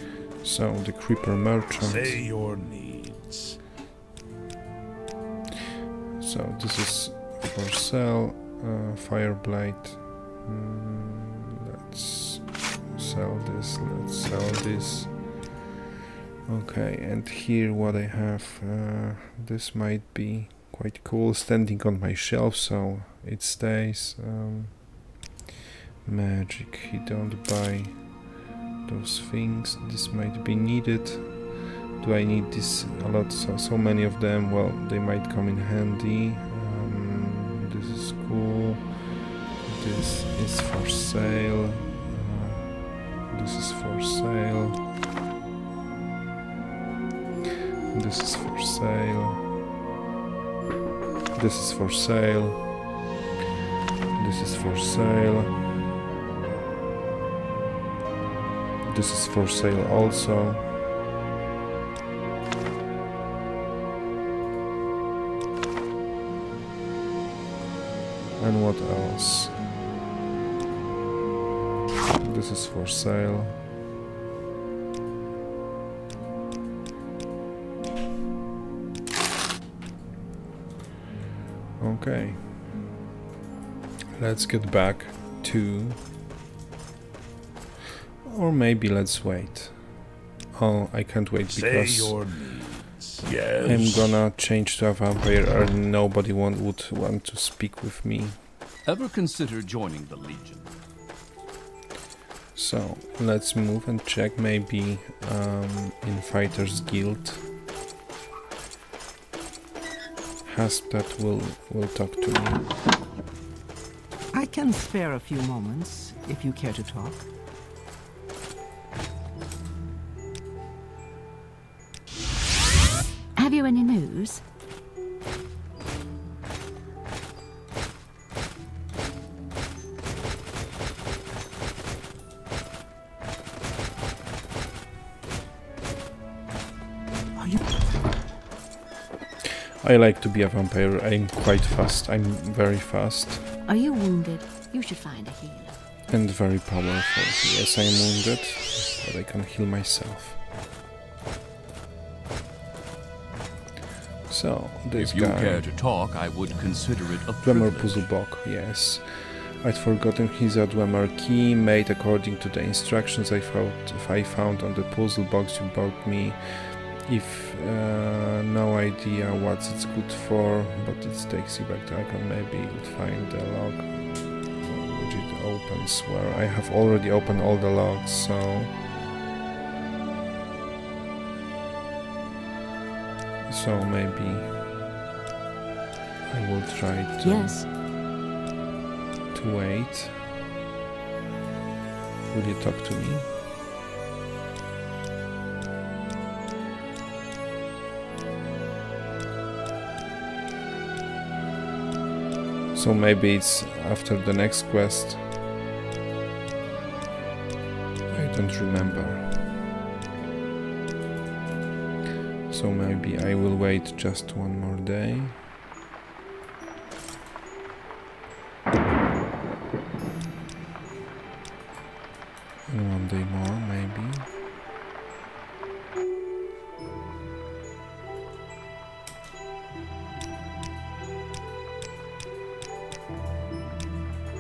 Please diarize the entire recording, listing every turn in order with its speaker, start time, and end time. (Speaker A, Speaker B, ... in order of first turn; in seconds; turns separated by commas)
Speaker A: 0.4-2.2, Speaker B: 1.8-3.6, Speaker A: 6.2-15.4, Speaker A: 16.5-25.0, Speaker A: 26.0-28.1, Speaker A: 28.9-39.1, Speaker A: 39.6-44.8, Speaker A: 47.9-49.4, Speaker A: 51.3-52.7, Speaker A: 54.1-55.6, Speaker A: 58.9-60.7, Speaker A: 68.4-69.6, Speaker A: 72.2-73.6, Speaker A: 81.8-82.4, Speaker A: 84.2-86.0, Speaker A: 88.2-90.0, Speaker A: 90.5-92.2, Speaker B: 91.5-94.2, Speaker A: 93.6-98.4, Speaker C: 98.8-100.7, Speaker A: 102.5-107.4, Speaker A: 110.5-112.7, Speaker D: 114.3-117.2, Speaker E: 123.3-124.4, Speaker D: 137.4-137.7, Speaker A: 139.8-143.4, Speaker E: 143.7-145.8, Speaker A: 146.1-150.4, Speaker A: 154.3-155.8, Speaker C: 155.0-158.1, Speaker A: 157.4-178.7, Speaker A: 183.5-184.6, Speaker A: 186.3-187.6, Speaker E: 187.2-187.7, Speaker A: 189.3-190.2, Speaker A: 192.3-193.3, Speaker A: 202.7-205.2, Speaker A: 208.1-209.4, Speaker A: 212.5-215.4, Speaker A: 222.7-224.3